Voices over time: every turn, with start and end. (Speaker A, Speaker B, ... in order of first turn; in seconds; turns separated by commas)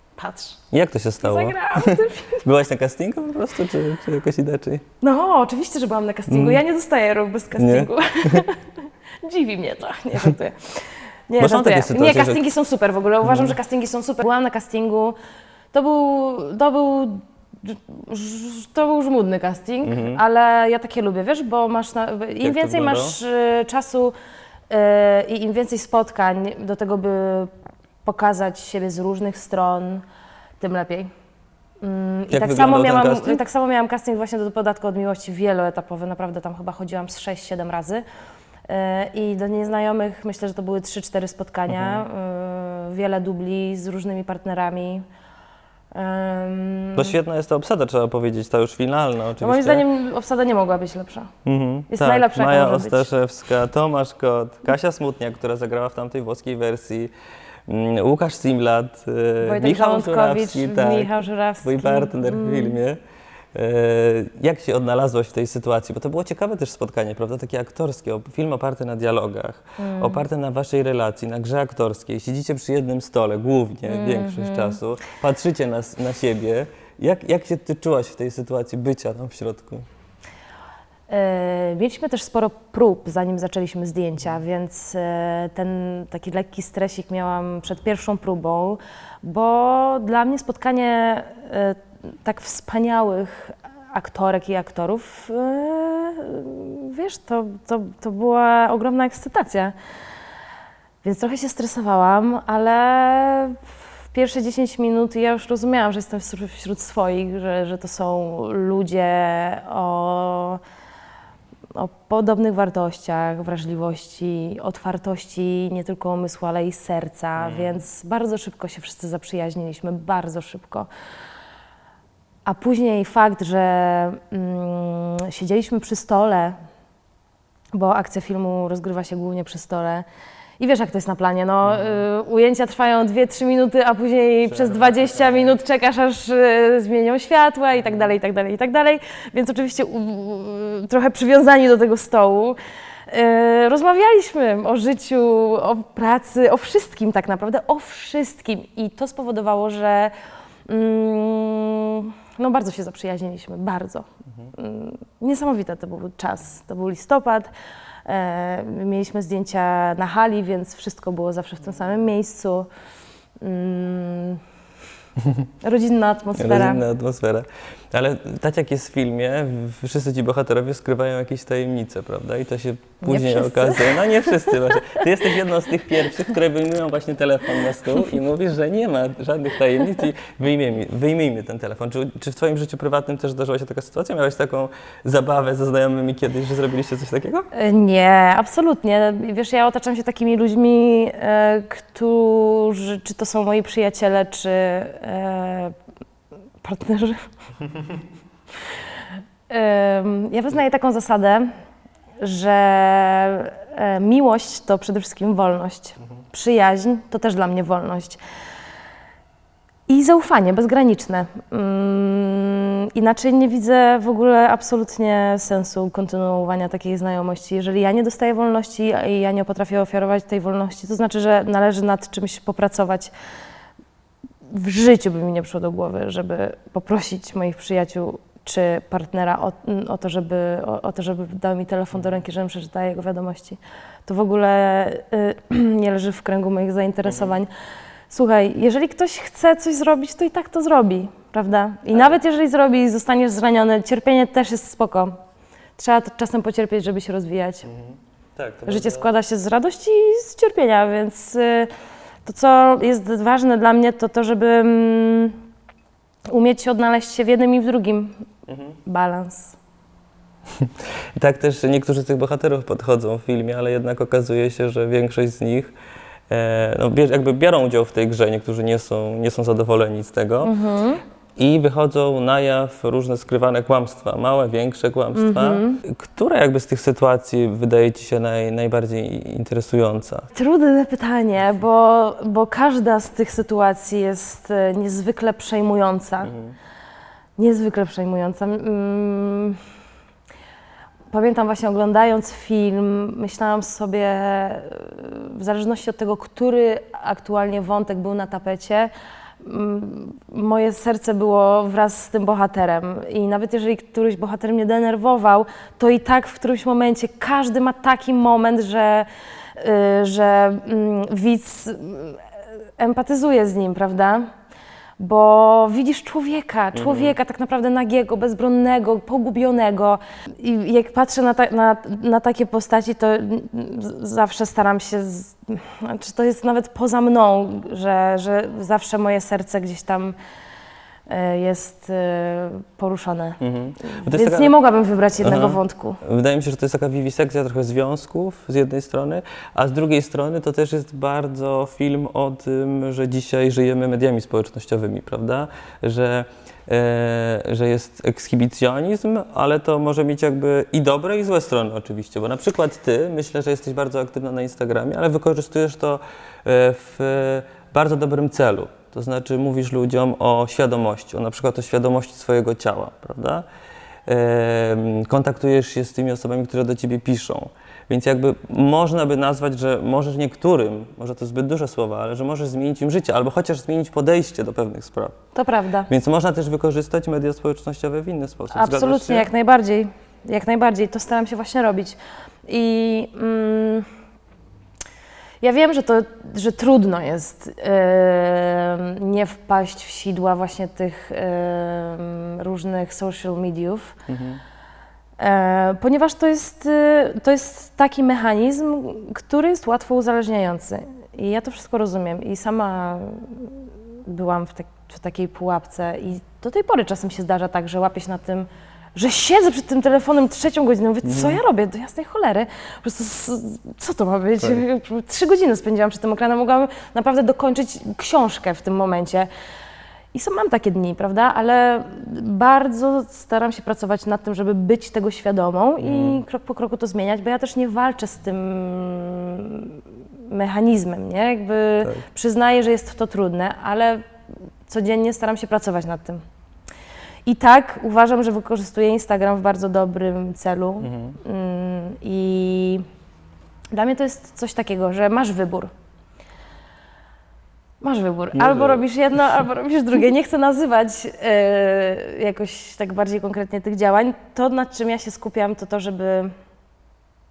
Speaker A: 0.2-0.6, Speaker B: 0.7-4.8, Speaker A: 1.2-2.4, Speaker A: 5.0-15.2, Speaker B: 6.3-6.6, Speaker B: 7.6-8.4, Speaker B: 11.4-12.4, Speaker B: 13.2-13.6, Speaker A: 15.7-24.1, Speaker B: 19.8-20.2, Speaker B: 22.4-23.1, Speaker A: 24.7-27.5, Speaker A: 28.1-30.0, Speaker A: 30.6-31.1, Speaker A: 31.8-38.0, Speaker B: 32.3-33.4, Speaker A: 38.7-45.0, Speaker B: 41.7-42.1, Speaker A: 45.9-47.1, Speaker B: 47.0-49.9, Speaker A: 49.4-51.3, Speaker B: 51.5-57.1, Speaker A: 51.9-53.1, Speaker B: 57.7-63.0, Speaker A: 59.4-62.8, Speaker B: 63.5-79.8, Speaker A: 69.8-70.2, Speaker A: 73.9-74.8, Speaker A: 81.1-99.8, Speaker A: 101.0-110.6, Speaker A: 111.8-120.9, Speaker B: 117.4-117.8, Speaker A: 122.5-126.6, Speaker A: 127.7-130.1, Speaker A: 130.6-142.6, Speaker B: 131.7-132.0, Speaker B: 134.5-135.6, Speaker A: 143.1-150.1, Speaker A: 150.7-157.5, Speaker A: 158.1-162.7, Speaker A: 163.4-164.4, Speaker A: 165.6-166.8, Speaker B: 166.4-187.5, Speaker A: 173.0-175.0, Speaker A: 187.5-195.8, Speaker A: 196.6-197.2, Speaker A: 199.5-201.5, Speaker A: 202.2-208.2, Speaker A: 209.9-223.1, Speaker A: 224.5-237.5, Speaker B: 237.1-237.3, Speaker A: 238.1-245.2, Speaker A: 245.8-247.7, Speaker B: 247.7-249.0, Speaker A: 248.7-251.7, Speaker A: 252.2-255.4, Speaker A: 256.3-258.3, Speaker A: 258.9-259.6, Speaker B: 260.6-265.7, Speaker B: 266.3-270.5, Speaker A: 270.4-271.0, Speaker B: 271.4-280.3, Speaker A: 275.1-275.8, Speaker A: 280.3-286.3, Speaker B: 286.3-286.6, Speaker A: 287.4-289.6, Speaker A: 291.1-312.3, Speaker A: 312.8-314.3, Speaker A: 315.0-330.2, Speaker B: 316.7-317.1, Speaker A: 331.1-333.4, Speaker B: 333.4-334.6, Speaker A: 334.0-336.0, Speaker B: 335.2-363.5, Speaker B: 364.1-375.2, Speaker A: 375.3-375.9, Speaker B: 375.9-379.3, Speaker A: 378.5-383.9, Speaker A: 385.4-394.0, Speaker B: 394.1-394.4, Speaker A: 395.2-419.3, Speaker B: 411.1-411.4, Speaker A: 420.1-434.1, Speaker B: 425.8-426.2, Speaker A: 434.7-436.2, Speaker A: 437.3-442.8, Speaker B: 440.8-441.2, Speaker A: 443.7-445.7, Speaker A: 447.8-456.3, Speaker B: 448.4-448.8